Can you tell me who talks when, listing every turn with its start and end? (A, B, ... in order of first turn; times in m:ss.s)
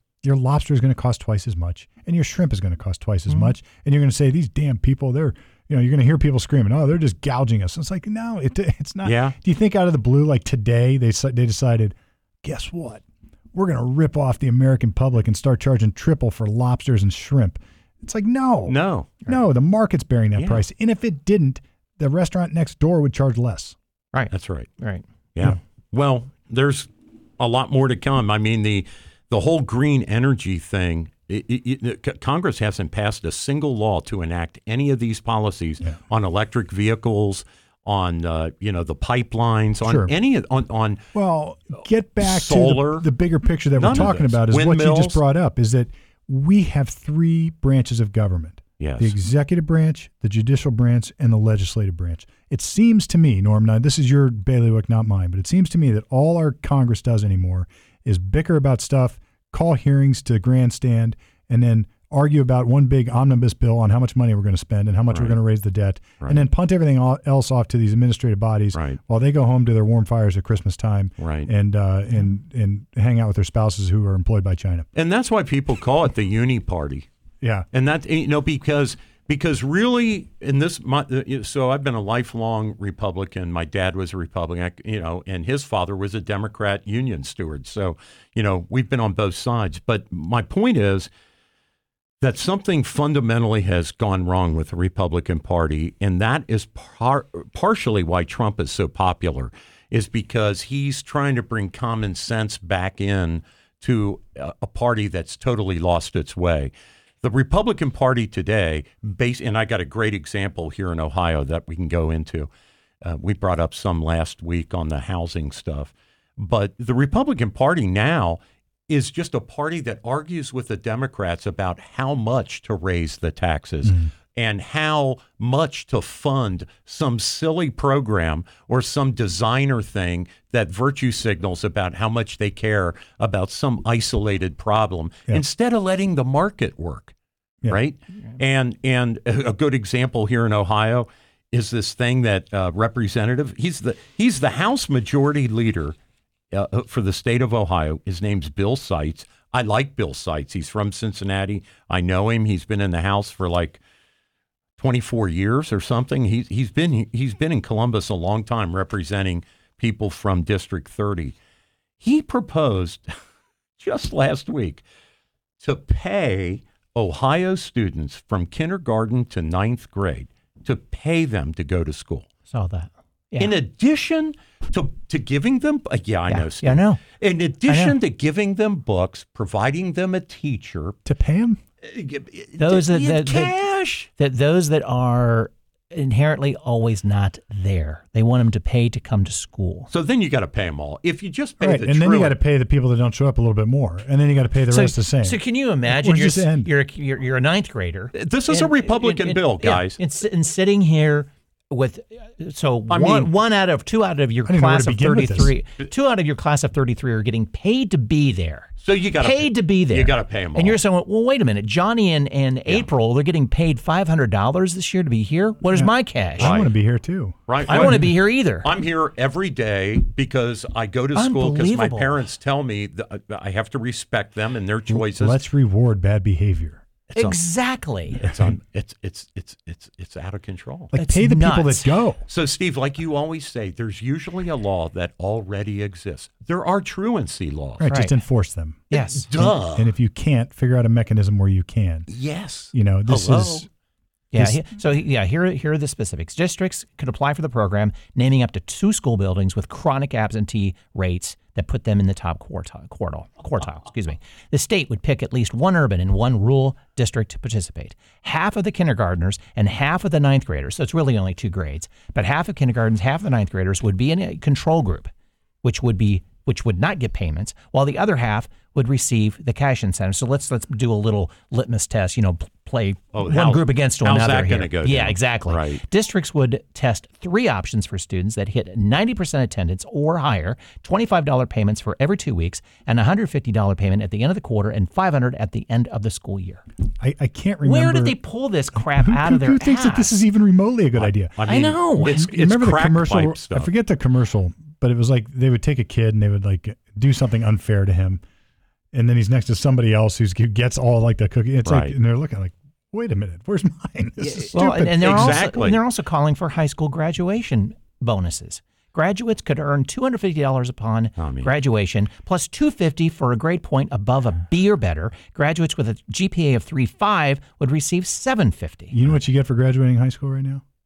0:00.2-0:13.0 A
0:09.0-0:09.4 B
0:13.5-0:23.8 A
0:18.6-0:19.1 B
0:20.4-0:20.6 B
0:24.1-0:25.0 C
0:24.3-0:24.7 B
0:25.3-0:41.0 B
0:39.8-0:40.1 A
0:41.1-1:14.9 A
0:42.2-0:43.0 B
0:43.8-0:45.2 B
0:48.8-0:49.1 B
1:05.1-1:05.4 B
1:08.7-1:09.0 B
1:11.2-1:11.5 B
1:14.9-1:17.1 B
1:17.4-1:17.7 A
1:17.7-1:31.1 B
1:32.2-1:46.7 B
1:47.2-1:52.5 B
1:53.0-2:17.1 B
2:17.7-2:25.9 B
2:26.5-2:33.8 B
2:34.8-2:41.3 B
2:42.0-2:43.1 B
2:43.8-2:44.8 B
2:45.6-2:52.3 B
2:52.5-2:53.5 C
2:53.4-3:01.0 B
2:56.3-2:57.0 C
2:57.7-2:58.0 C
3:01.0-3:01.6 A
3:01.8-3:04.1 B
3:02.6-3:03.6 C
3:04.2-3:09.9 C
3:09.9-3:12.4 B
3:11.6-3:16.7 A
3:14.7-3:36.6 C
3:18.1-3:20.0 B
3:22.9-3:23.3 B
3:24.4-3:25.5 A
3:28.8-3:30.8 B
3:35.7-3:38.1 A
3:36.4-3:36.7 B
3:37.5-3:45.4 B
3:37.7-3:38.7 C
3:41.1-3:42.2 C
3:44.9-3:46.8 A
3:47.1-3:47.4 B
3:47.1-3:48.3 C
3:48.1-3:50.9 B
3:50.9-3:52.2 A
3:51.0-3:52.0 C
3:52.3-3:57.8 B
3:57.8-4:02.1 A
3:57.8-3:58.2 C
3:58.9-3:59.3 C
3:58.9-3:59.9 B
4:02.1-4:03.6 B
4:02.7-4:03.7 A
4:04.3-4:25.1 C
4:04.4-4:04.6 A
4:25.6-4:46.6 C
4:33.1-4:35.8 B
4:47.0-4:48.2 A
4:47.6-4:50.2 C
4:48.8-4:51.4 A
4:51.0-4:53.7 B
4:51.4-4:52.2 C
4:52.0-4:58.2 A
4:58.9-5:05.4 A
5:01.6-5:01.9 B
5:04.5-5:18.9 C
5:04.9-5:05.8 B
5:11.2-5:11.5 B
5:18.9-5:20.6 A